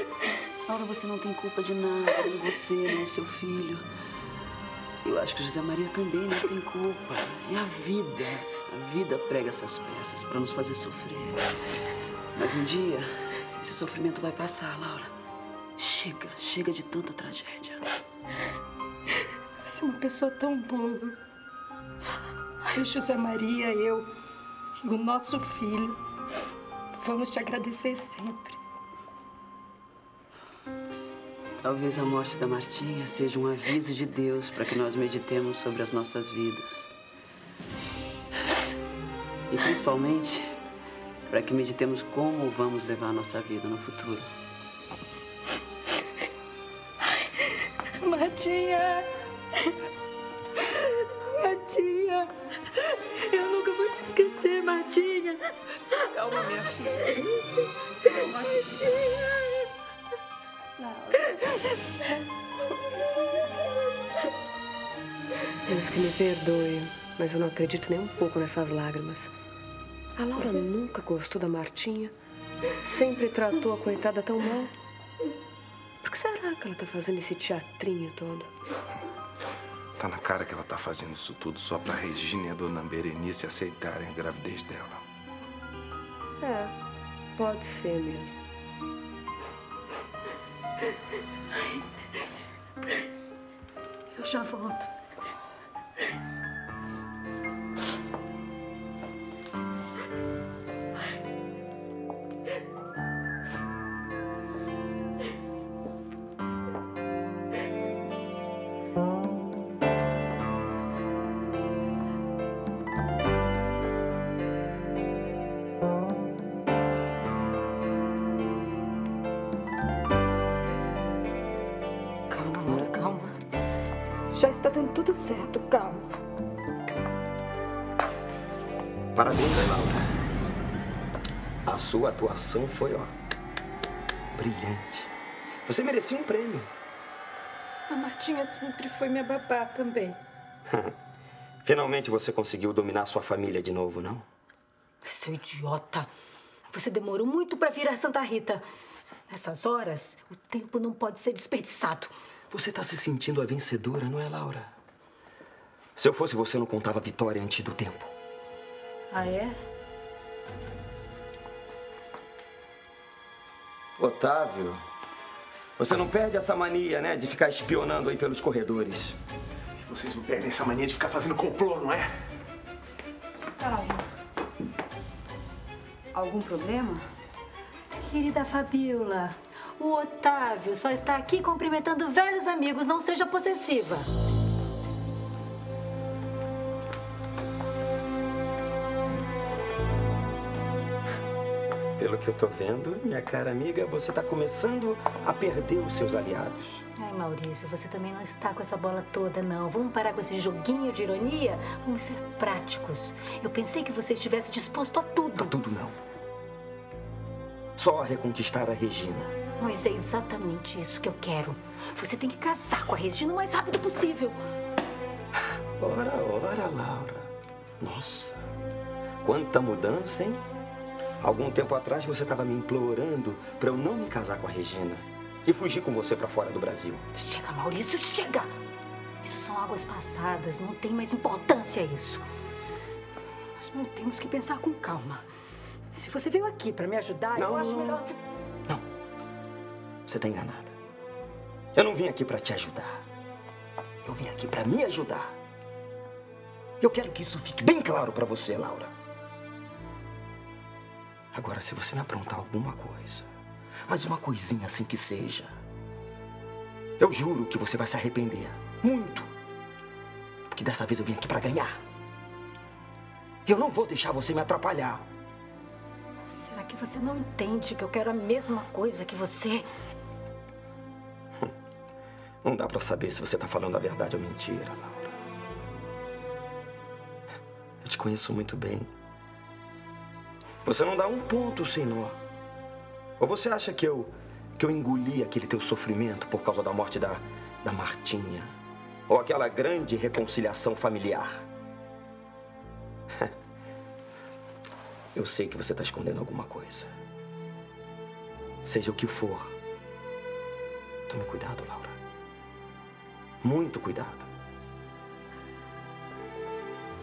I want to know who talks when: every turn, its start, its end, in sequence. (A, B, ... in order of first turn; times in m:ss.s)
0:00.6-0:03.8 A
0:05.0-0:11.5 A
0:12.3-0:15.1 A
0:15.8-0:17.8 A
0:19.6-0:21.2 B
0:22.7-0:24.1 B
0:24.8-0:26.0 B
0:27.0-0:28.6 B
0:31.6-0:36.9 A
0:39.5-0:40.6 A
0:41.3-0:44.3 A
0:48.0-0:49.1 B
0:51.2-0:52.3 B
0:53.3-0:55.4 B
1:05.7-1:09.3 C
1:10.2-1:12.1 C
1:12.9-1:14.7 C
1:16.0-1:18.5 C
1:20.0-1:25.0 D
1:27.4-1:28.3 C
1:34.1-1:34.9 E
2:02.3-2:03.3 B
2:04.3-2:06.0 B
2:09.1-2:10.1 F
2:11.6-2:13.1 F
2:14.3-2:15.1 F
2:15.6-2:16.7 F
2:17.9-2:20.2 B
2:20.7-2:20.9 F
2:21.6-2:24.2 F
2:25.0-2:26.1 E
2:26.7-2:28.6 E
2:29.3-2:32.1 E
2:32.5-2:34.7 F
2:36.0-2:38.1 F
2:39.1-2:39.6 E
2:44.0-2:44.8 F
2:45.8-2:49.2 F
2:49.8-2:52.1 G
2:53.6-2:54.0 B
2:58.0-3:04.1 E
3:12.0-3:16.8 F
3:17.0-3:25.5 E
3:25.3-3:26.0 F
3:27.8-3:29.3 F
3:29.6-3:34.4 E
3:35.8-3:38.4 F
3:39.2-3:40.4 F
3:41.2-3:47.0 F
3:47.1-3:48.5 E
3:49.2-3:52.2 E
3:53.6-3:55.2 E
3:55.9-3:58.2 E
3:57.3-3:58.0 F
4:00.0-4:00.8 F
4:01.7-4:03.0 F
4:04.0-4:05.4 F
4:06.8-4:08.9 F
4:11.3-4:13.3 F
4:13.9-4:15.6 F
4:17.0-4:19.3 F
4:20.5-4:21.8 F
4:23.4-4:25.0 F
4:26.3-4:29.7 E
4:32.4-4:35.2 F
4:37.8-4:38.9 F
4:40.6-4:42.2 F
4:43.2-4:48.5 F
4:49.1-4:51.4 F
4:55.1-4:56.9 F
4:58.6-4:59.6 F
5:01.1-5:02.0 F
5:03.4-5:04.3 F